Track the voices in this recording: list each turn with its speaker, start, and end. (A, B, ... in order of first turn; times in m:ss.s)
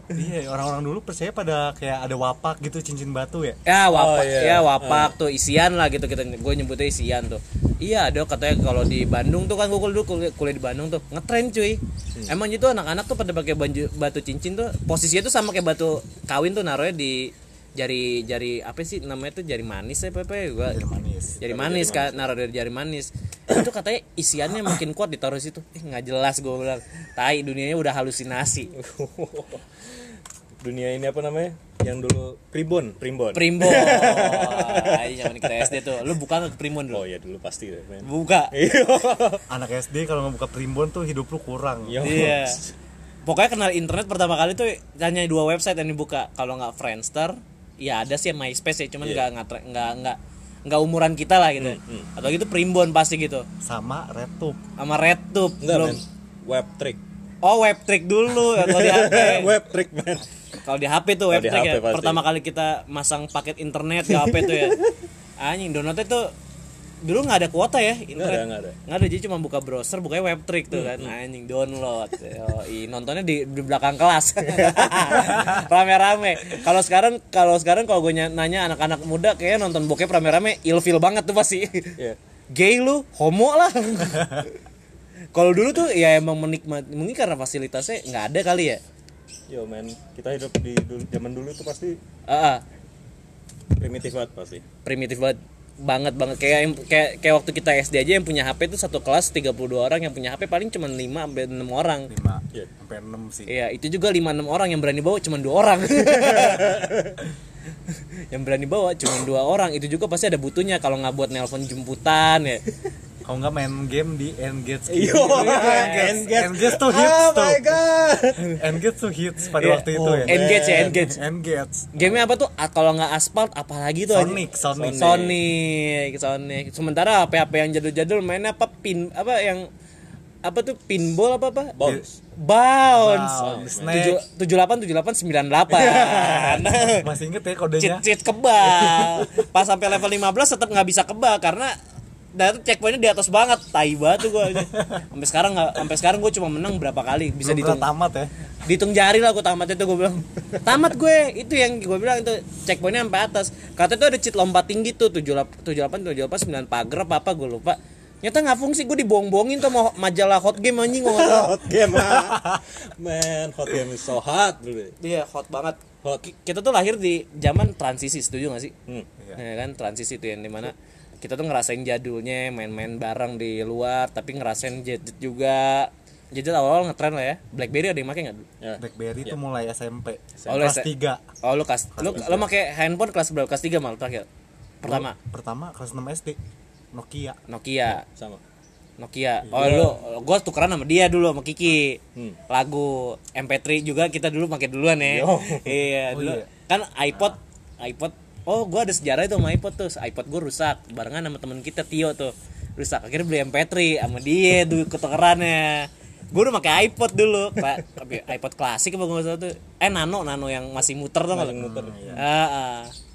0:00.1-0:03.6 A
0:03.6-0:20.8 B
0:03.9-0:05.2 C
0:20.7-0:21.4 A
0:21.4-0:28.7 B
0:21.4-0:22.3 C
0:28.7-0:35.8 C
0:33.3-0:37.0 B
0:36.9-0:39.4 C
0:38.0-0:38.5 B
0:39.5-0:42.0 A
0:41.9-0:42.7 C
0:42.0-0:42.6 B
0:43.2-0:53.5 B
0:51.6-0:52.1 C
0:53.6-0:54.6 A
0:54.8-0:56.0 B
0:55.6-0:57.0 C
0:57.4-0:59.5 B
0:58.4-1:00.3 C
1:00.6-1:04.8 B
1:01.3-1:02.2 C
1:04.1-1:04.9 C
1:05.4-1:06.3 B
1:07.0-1:22.0 B
1:08.2-1:08.8 C
1:10.7-1:11.1 C
1:14.5-1:15.4 C
1:22.5-1:24.6 B
1:25.3-1:28.8 B
1:29.5-1:32.0 C
1:32.3-1:32.6 B
1:33.8-1:34.6 C
1:34.8-1:42.1 B
1:42.1-1:43.5 A
1:43.5-1:46.8 B
1:46.2-1:47.2 C
1:47.9-1:52.6 B
1:53.2-1:57.6 A
1:54.9-1:58.7 C
1:55.3-1:56.2 B
1:58.4-2:01.9 A
1:59.6-2:01.1 C
2:00.2-2:01.2 B
2:02.0-2:04.4 B
2:02.0-2:02.3 C
2:04.1-2:05.3 A
2:04.7-2:05.4 C
2:05.0-2:09.7 B
2:10.4-2:11.8 B
2:11.8-2:12.2 C
2:12.4-2:17.1 B
2:12.9-2:14.2 A
2:13.4-2:14.1 C
2:15.7-2:16.7 C
2:17.0-2:18.0 A
2:17.8-2:21.7 B
2:22.4-2:27.9 B
2:24.5-2:25.0 A
2:27.4-2:28.3 A
2:28.6-2:42.2 B
2:41.0-2:45.0 C
2:45.0-2:48.7 B
2:49.4-2:58.5 B
2:58.6-2:59.4 C
2:58.8-3:01.2 A
3:00.4-3:00.7 C
3:00.5-3:00.9 B
3:01.4-3:04.3 B
3:01.9-3:02.4 A
3:02.1-3:02.4 C
3:04.8-3:05.2 B
3:04.8-3:06.4 A
3:06.9-3:07.4 A
3:07.5-3:08.0 B
3:08.1-3:08.4 C
3:09.0-3:31.6 B
3:09.5-3:10.0 C
3:15.0-3:15.8 C
3:16.1-3:16.5 A
3:31.3-3:32.2 C
3:31.5-3:32.2 A
3:32.2-3:32.9 B